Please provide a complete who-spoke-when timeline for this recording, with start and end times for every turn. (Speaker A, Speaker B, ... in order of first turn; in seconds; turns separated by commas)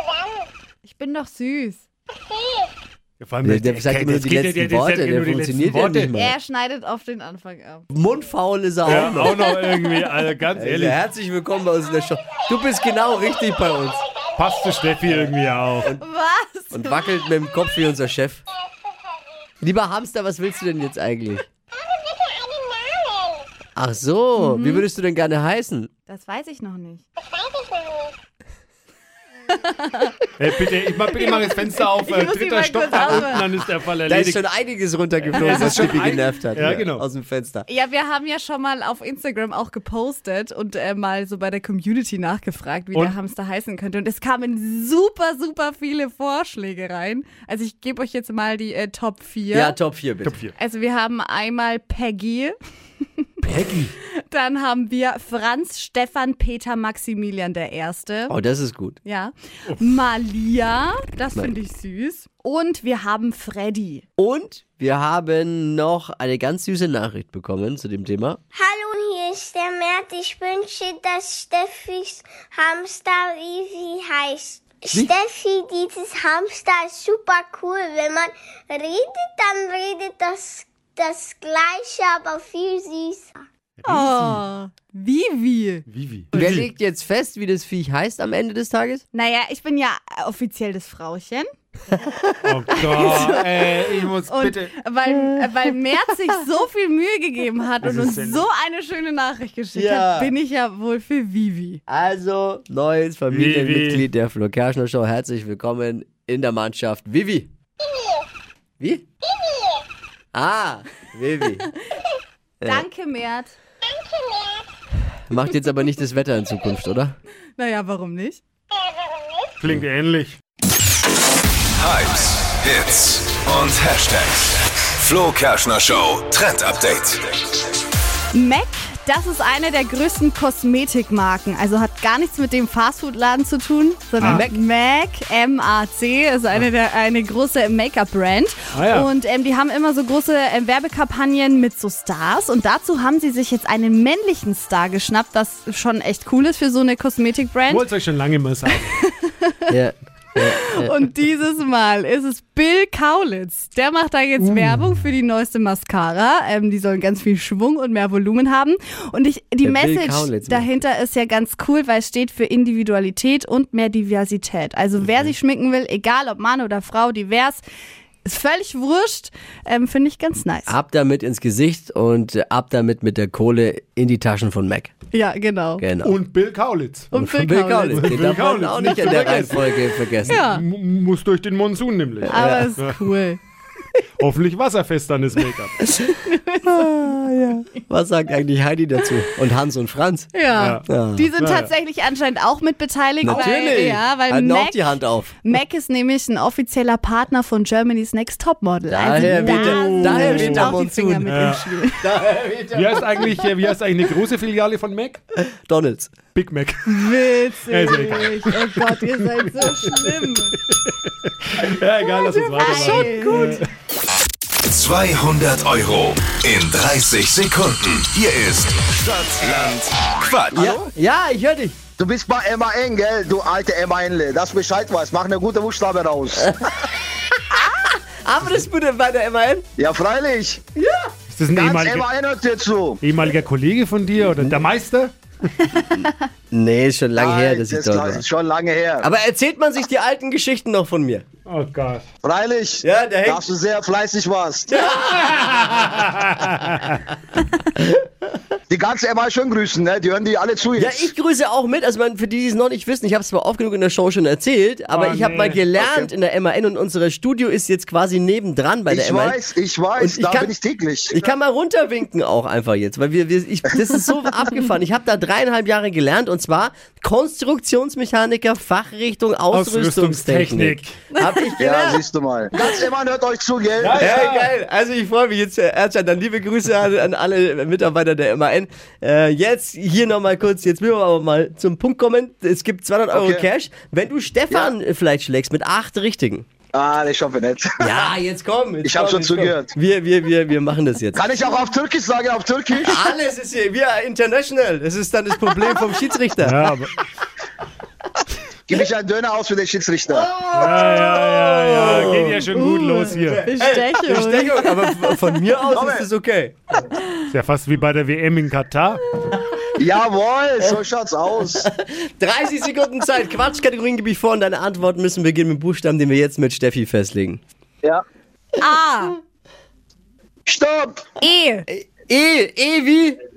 Speaker A: 0.8-1.8, Speaker B: 3.2-6.1, Speaker C: 3.4-6.4, Speaker A: 6.1-7.8, Speaker C: 7.9-9.5, Speaker B: 8.8-11.0, Speaker C: 10.6-14.0, Speaker B: 14.4-15.9, Speaker A: 16.0-17.0, Speaker C: 16.7-18.4, Speaker C: 19.6-21.5, Speaker C: 23.8-25.9, Speaker A: 24.4-24.8, Speaker A: 26.1-27.0, Speaker A: 29.5-30.1, Speaker B: 30.4-34.4, Speaker A: 31.2-33.5, Speaker C: 34.0-37.6, Speaker B: 35.3-37.0, Speaker A: 37.7-49.8, Speaker C: 49.5-50.4, Speaker B: 50.2-50.5, Speaker A: 50.5-52.5, Speaker B: 53.4-53.9, Speaker A: 54.2-58.3, Speaker C: 58.3-59.0, Speaker A: 59.0-64.0, Speaker C: 64.2-68.4, Speaker D: 68.5-83.3, Speaker B: 83.8-84.4, Speaker A: 83.8-85.8, Speaker B: 85.9-86.7, Speaker C: 86.3-89.0, Speaker A: 89.1-91.5, Speaker C: 92.0-92.3, Speaker B: 92.4-94.7, Speaker A: 92.8-93.7, Speaker C: 92.9-93.3, Speaker A: 94.2-101.8, Speaker C: 95.2-95.5, Speaker B: 97.8-98.5, Speaker C: 99.7-100.3, Speaker C: 101.9-107.5, Speaker B: 103.3-104.0, Speaker C: 108.8-109.0, Speaker C: 110.3-111.7, Speaker C: 112.6-112.9, Speaker A: 112.6-113.5, Speaker C: 115.3-117.2, Speaker A: 117.5-118.4, Speaker B: 119.6-120.4, Speaker E: 121.8-127.4, Speaker A: 128.3-147.8, Speaker C: 134.2-134.6, Speaker B: 138.7-139.1, Speaker B: 147.7-148.9, Speaker A: 148.9-149.7, Speaker C: 149.7-150.9, Speaker A: 150.3-167.6, Speaker B: 154.4-154.8, Speaker C: 159.6-160.7, Speaker C: 165.0-165.3, Speaker A: 168.2-170.7, Speaker C: 170.7-174.9, Speaker A: 175.1-175.8, Speaker C: 175.8-176.2, Speaker B: 176.0-177.1, Speaker A: 177.1-178.1, Speaker C: 177.1-180.4, Speaker B: 177.9-179.6, Speaker B: 180.2-183.0, Speaker A: 180.3-180.6, Speaker A: 182.3-183.4, Speaker C: 182.3-182.7, Speaker B: 184.2-185.7, Speaker A: 186.2-187.0, Speaker C: 186.6-191.3, Speaker A: 190.3-194.9, Speaker B: 190.5-190.8, Speaker B: 191.4-191.7, Speaker C: 193.2-195.4, Speaker A: 195.4-202.1, Speaker C: 198.9-201.4, Speaker B: 199.2-200.7, Speaker B: 201.2-201.6, Speaker C: 202.0-203.4, Speaker B: 202.7-205.2, Speaker C: 205.4-206.1, Speaker B: 206.3-207.1, Speaker A: 206.8-210.6, Speaker B: 207.7-210.2, Speaker B: 211.4-213.7, Speaker C: 212.2-213.4, Speaker A: 212.6-213.6, Speaker E: 214.7-220.7, Speaker C: 220.5-221.8, Speaker F: 222.0-226.5, Speaker C: 227.3-229.7, Speaker F: 229.8-230.6, Speaker C: 230.8-231.1, Speaker B: 231.3-232.1, Speaker F: 231.5-233.0, Speaker B: 233.0-235.7, Speaker C: 234.3-234.6, Speaker C: 236.5-238.2, Speaker F: 237.2-239.1, Speaker C: 239.0-241.2, Speaker B: 241.4-242.0, Speaker F: 242.2-244.7, Speaker C: 242.8-243.4, Speaker C: 244.7-245.5, Speaker B: 245.3-246.9, Speaker F: 248.7-251.1, Speaker C: 250.8-259.4, Speaker B: 254.9-255.6, Speaker F: 255.8-256.1, Speaker F: 258.9-261.3, Speaker C: 259.9-260.5, Speaker C: 261.1-272.0, Speaker B: 269.5-271.0, Speaker F: 271.6-274.3, Speaker B: 273.8-274.5, Speaker C: 273.9-286.5, Speaker F: 283.1-283.4, Speaker F: 286.7-287.7, Speaker C: 287.8-291.2, Speaker F: 288.8-289.7, Speaker F: 291.1-293.0, Speaker C: 292.8-296.7, Speaker B: 296.4-296.9, Speaker F: 298.7-300.3, Speaker C: 300.1-302.4, Speaker B: 300.5-303.5, Speaker A: 302.5-305.2, Speaker C: 303.1-306.6, Speaker F: 305.7-306.1, Speaker B: 307.3-309.0, Speaker F: 309.8-311.6, Speaker C: 311.6-317.4, Speaker A: 318.6-319.2, Speaker F: 320.5-321.0, Speaker A: 321.2-321.6, Speaker C: 321.7-323.2